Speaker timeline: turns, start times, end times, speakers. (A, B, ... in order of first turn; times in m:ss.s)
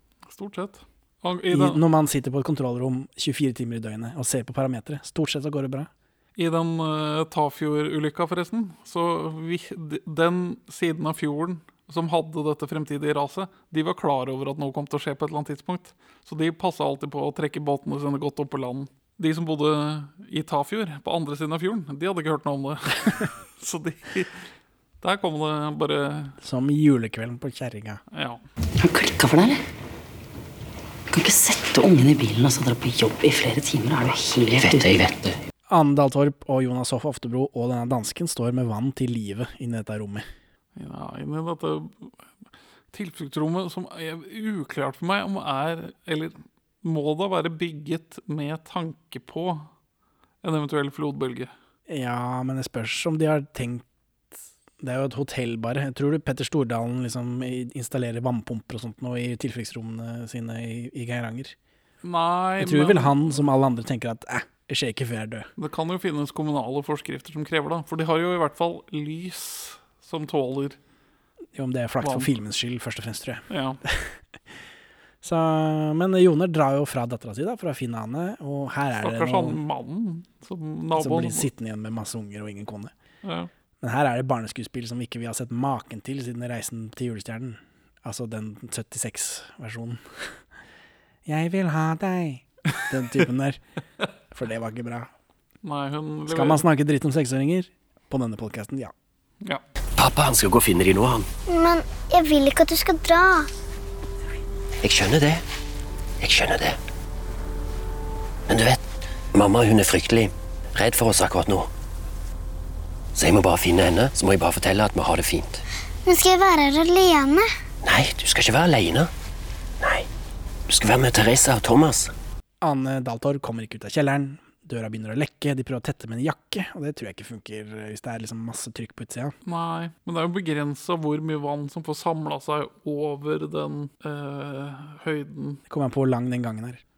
0:00.3-0:01.8 A
0:01.5-0:05.9 B
0:06.4-0:24.4 A
0:25.0-0:26.4 A
0:26.4-0:28.0 B
0:28.1-0:28.4 A
0:28.8-0:29.6 C
0:31.1-0:35.0 C
0:34.6-0:35.2 D
0:35.7-0:40.2 B
0:40.8-0:42.1 A
0:42.9-0:49.7 A
0:50.4-0:51.5 A
0:51.9-0:53.8 B
0:54.8-1:01.5 B
1:02.0-1:03.5 A
1:02.6-1:05.5 B
1:05.6-1:10.8 A
1:11.5-1:14.2 B
1:12.0-1:12.3 A
1:13.5-1:13.8 A
1:15.2-1:19.6 B
1:19.0-1:21.5 A
1:21.0-1:22.9 B
1:23.2-1:23.5 A
1:23.8-1:30.3 B
1:31.2-1:33.6 B
1:34.3-1:35.1 B
1:35.6-1:36.6 A
1:36.3-1:38.9 B
1:40.0-1:41.3 D
1:41.5-1:43.5 E
1:44.8-1:45.4 D
1:46.2-1:46.8 D
1:48.5-1:48.8 D
1:49.3-1:51.7 D
1:53.1-1:55.6 D
1:56.0-1:57.5 E
1:57.8-1:59.1 D
1:59.8-2:00.1 D
2:00.7-2:02.1 D
2:02.6-2:09.3 B
2:09.4-2:15.6 A
2:15.7-2:16.8 B